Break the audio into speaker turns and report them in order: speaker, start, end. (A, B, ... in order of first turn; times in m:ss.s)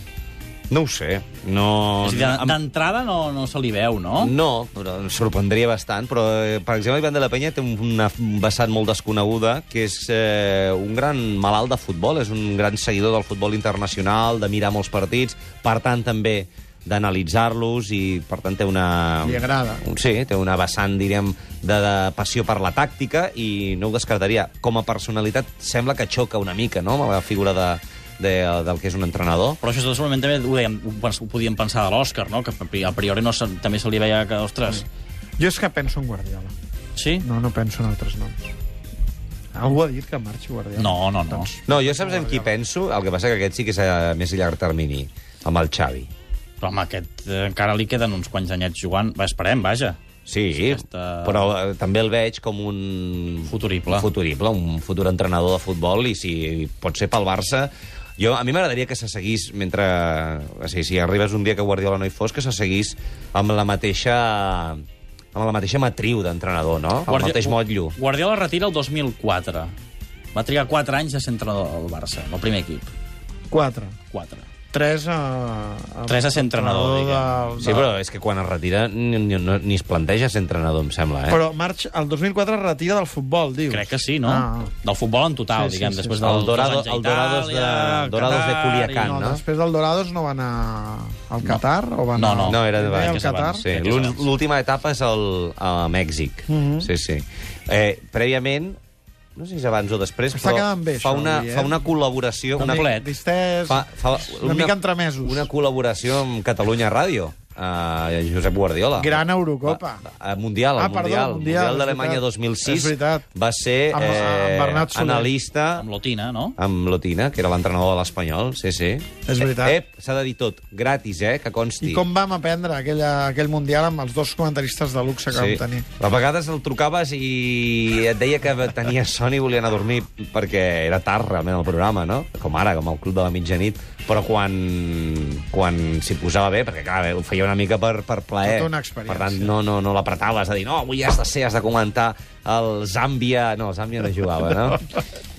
0:00.7-0:02.6 A
0:02.0-0:04.3 B
0:04.2-0:29.6 A
0:19.2-0:19.8 C
0:29.6-0:34.8 B
0:35.4-0:36.5 C
0:37.0-0:37.2 B
0:37.2-0:38.5 C
0:39.5-0:42.5 C
0:40.8-0:41.5 B
0:41.7-0:46.1 A
0:46.6-0:50.0 B
0:50.2-1:04.8 A
0:50.5-0:51.5 B
0:53.4-0:54.1 B
1:05.3-1:07.9 A
1:07.0-1:09.7 B
1:10.3-1:12.9 B
1:13.5-1:13.9 C
1:14.1-1:14.5 B
1:14.7-1:17.8 C
1:16.1-1:17.9 B
1:17.6-1:21.4 A
1:21.3-1:24.7 C
1:23.7-1:29.2 B
1:25.5-1:26.3 C
1:26.2-1:29.4 A
1:28.9-1:33.7 C
1:32.2-1:34.2 B
1:32.5-1:38.8 A
1:36.5-1:36.9 C
1:39.4-1:42.9 A
1:40.3-1:41.8 C
1:42.6-1:43.1 B
1:42.6-1:45.5 C
1:43.7-1:55.8 A
1:49.0-1:50.0 C
1:50.8-1:53.2 C
1:53.9-1:55.3 C
1:55.8-1:56.6 B
1:56.6-2:02.0 A
1:59.3-1:59.8 C
2:01.8-2:05.8 C
2:05.3-2:24.8 A
2:18.4-2:19.5 C